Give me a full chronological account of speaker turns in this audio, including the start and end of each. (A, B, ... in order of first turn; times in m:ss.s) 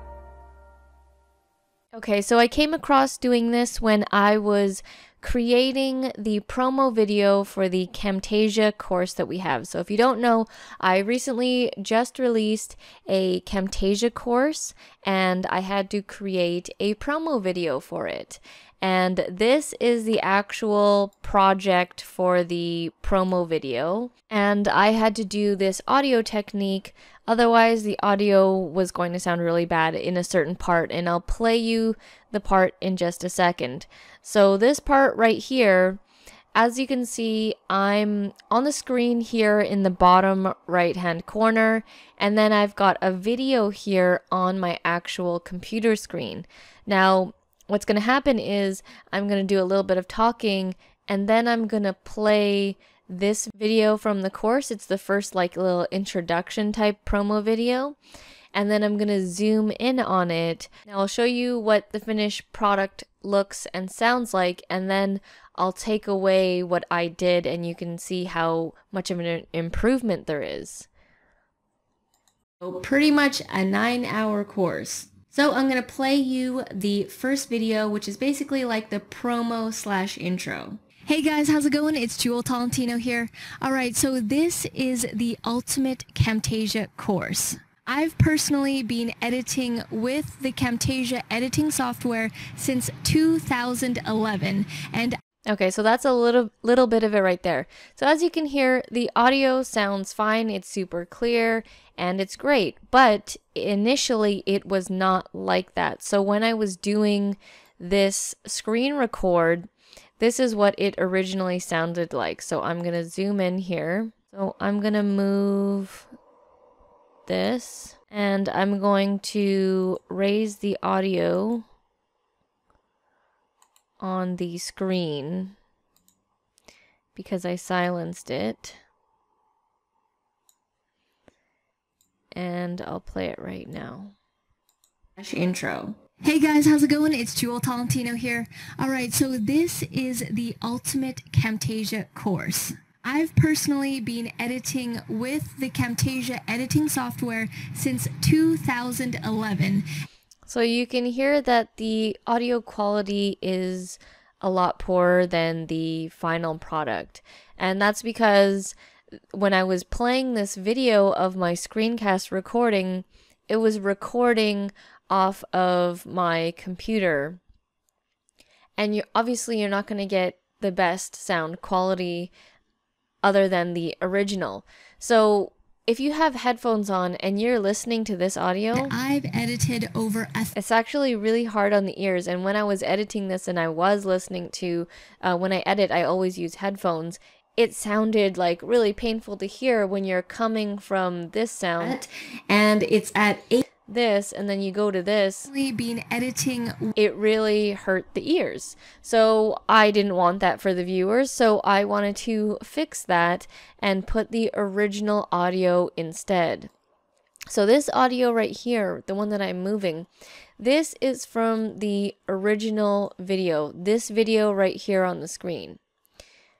0:01.9-0:36.0 A
0:36.5-0:58.0 A
0:58.5-1:10.9 A
1:12.6-1:20.8 A
1:21.0-1:35.2 B
1:35.5-1:56.1 A
1:57.3-2:01.6 A
2:04.0-2:05.5 A
2:07.1-2:08.8 A
2:12.3-2:14.1 A
2:15.2-2:29.9 B
2:30.5-2:38.7 A
2:39.3-2:47.4 A
2:48.8-2:52.3 A
2:53.2-2:58.9 A
2:58.7-3:00.5 B
3:00.5-3:15.5 A
3:15.5-3:16.9 B
3:17.0-3:26.7 A
3:27.5-3:30.1 A
3:30.6-3:35.8 A